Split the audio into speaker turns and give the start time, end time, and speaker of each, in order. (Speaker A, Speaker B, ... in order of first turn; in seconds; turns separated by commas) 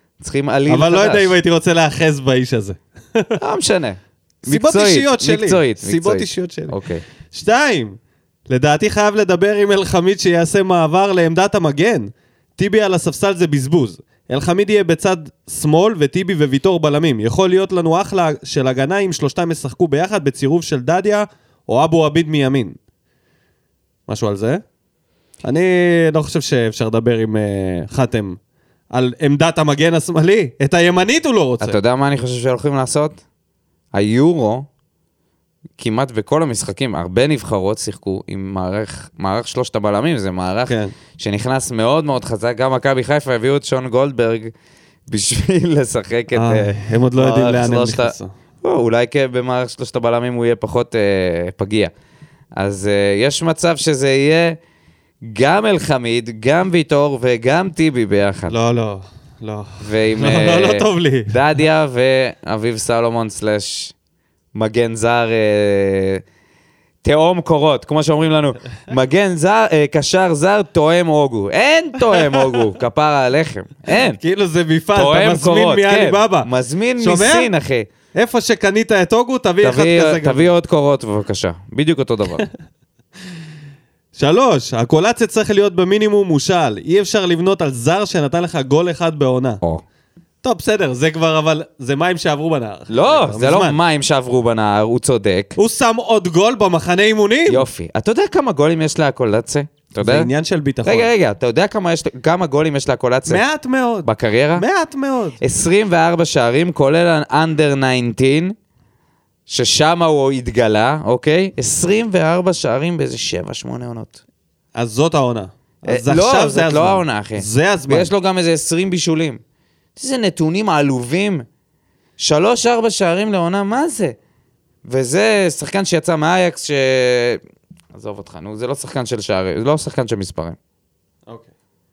Speaker A: 0.2-1.3, Speaker B: 0.7-3.4, Speaker A: 3.4-7.0, Speaker B: 4.4-6.8, Speaker B: 7.3-8.0, Speaker B: 8.5-22.8, Speaker B: 24.1-24.6, Speaker B: 25.4-28.4, Speaker B: 28.9-31.8, Speaker A: 31.6-33.2, Speaker A: 33.9-34.7, Speaker A: 35.8-44.5, Speaker B: 40.7-41.0, Speaker A: 45.1-51.9, Speaker B: 46.3-48.3, Speaker A: 52.6-54.6, Speaker A: 55.2-58.5, Speaker B: 58.5-61.4, Speaker A: 59.8-63.9, Speaker A: 64.5-66.2, Speaker A: 67.0-74.2, Speaker B: 74.2-77.5, Speaker A: 74.9-77.9, Speaker B: 78.2-80.5, Speaker A: 79.6-82.5, Speaker B: 84.2-89.6, Speaker B: 90.4-93.8, Speaker A: 92.9-95.6, Speaker B: 95.6-97.7, Speaker A: 97.5-100.3, Speaker B: 100.0-101.1, Speaker A: 100.8-103.4, Speaker B: 103.3-105.4, Speaker A: 104.0-104.7, Speaker A: 105.4-108.5, Speaker A: 109.5-114.2, Speaker B: 114.8-118.1, Speaker A: 115.9-119.4, Speaker A: 120.0-121.5, Speaker A: 122.2-124.2, Speaker A: 124.8-127.4, Speaker A: 127.9-130.6